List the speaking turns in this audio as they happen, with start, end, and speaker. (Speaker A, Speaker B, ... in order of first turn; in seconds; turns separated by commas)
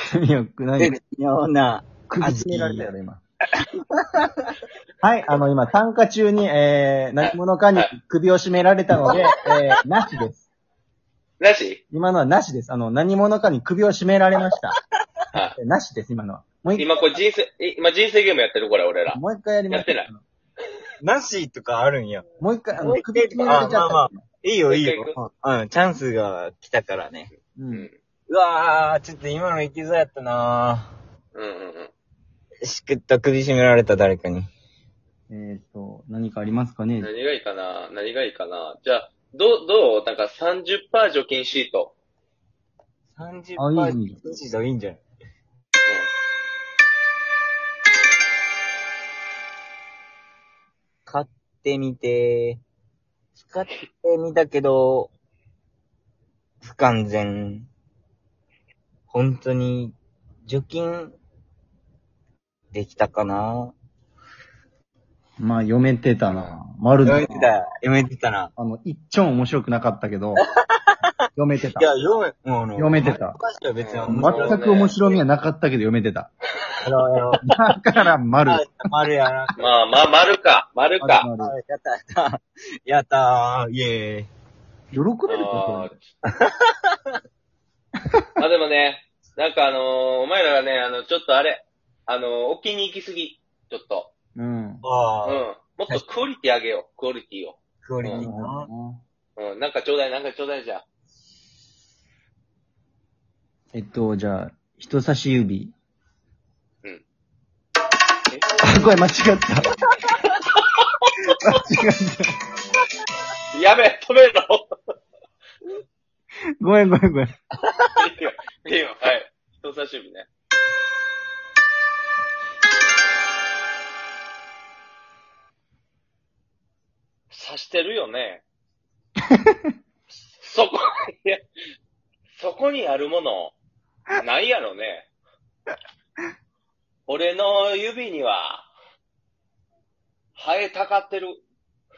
Speaker A: 0.1-1.0, Speaker B: 0.8-2.9, Speaker A: 2.0-3.2, Speaker B: 4.1-4.5, Speaker A: 5.0-10.4, Speaker C: 7.2-7.9, Speaker B: 9.0-9.3, Speaker C: 11.4-11.8, Speaker A: 11.9-14.7, Speaker A: 15.5-17.0, Speaker C: 16.7-20.1, Speaker A: 19.1-20.2, Speaker B: 21.0-22.2, Speaker A: 22.4-24.2, Speaker B: 22.8-27.3, Speaker C: 22.8-23.9, Speaker C: 24.7-25.2, Speaker A: 27.5-27.9, Speaker B: 28.3-30.9, Speaker C: 31.3-31.9, Speaker B: 32.6-34.5, Speaker A: 35.3-37.1, Speaker C: 37.0-41.9, Speaker B: 43.1-45.0, Speaker A: 43.5-44.3, Speaker B: 51.0-52.6, Speaker B: 53.3-55.1, Speaker B: 56.6-57.7, Speaker B: 59.1-61.1, Speaker B: 62.7-63.7, Speaker A: 65.4-67.6, Speaker C: 66.3-66.6, Speaker B: 67.0-68.5, Speaker A: 68.5-70.4, Speaker B: 70.6-71.0, Speaker A: 71.3-71.9, Speaker B: 71.8-75.2, Speaker A: 72.8-73.4, Speaker C: 73.8-75.0, Speaker A: 74.0-76.3, Speaker B: 76.8-77.7, Speaker A: 77.3-78.9, Speaker B: 78.5-79.5, Speaker C: 79.6-81.3, Speaker A: 81.0-81.5, Speaker B: 81.4-84.3, Speaker A: 84.9-85.9, Speaker C: 85.3-86.0, Speaker B: 86.2-87.1, Speaker C: 88.4-94.1, Speaker A: 94.3-94.8, Speaker B: 94.8-96.0, Speaker C: 95.2-98.3, Speaker B: 97.8-98.7, Speaker A: 98.1-99.0, Speaker C: 99.4-100.8, Speaker A: 103.7-105.7, Speaker A: 108.6-109.7, Speaker A: 111.3-112.3, Speaker C: 113.5-114.9, Speaker A: 116.6-117.3, Speaker B: 117.6-117.9, Speaker C: 117.9-120.3, Speaker C: 127.3-128.4, Speaker A: 129.3-129.7, Speaker C: 130.4-131.4, Speaker C: 132.3-133.5, Speaker C: 134.2-135.1, Speaker C: 137.1-138.7, Speaker C: 140.3-141.4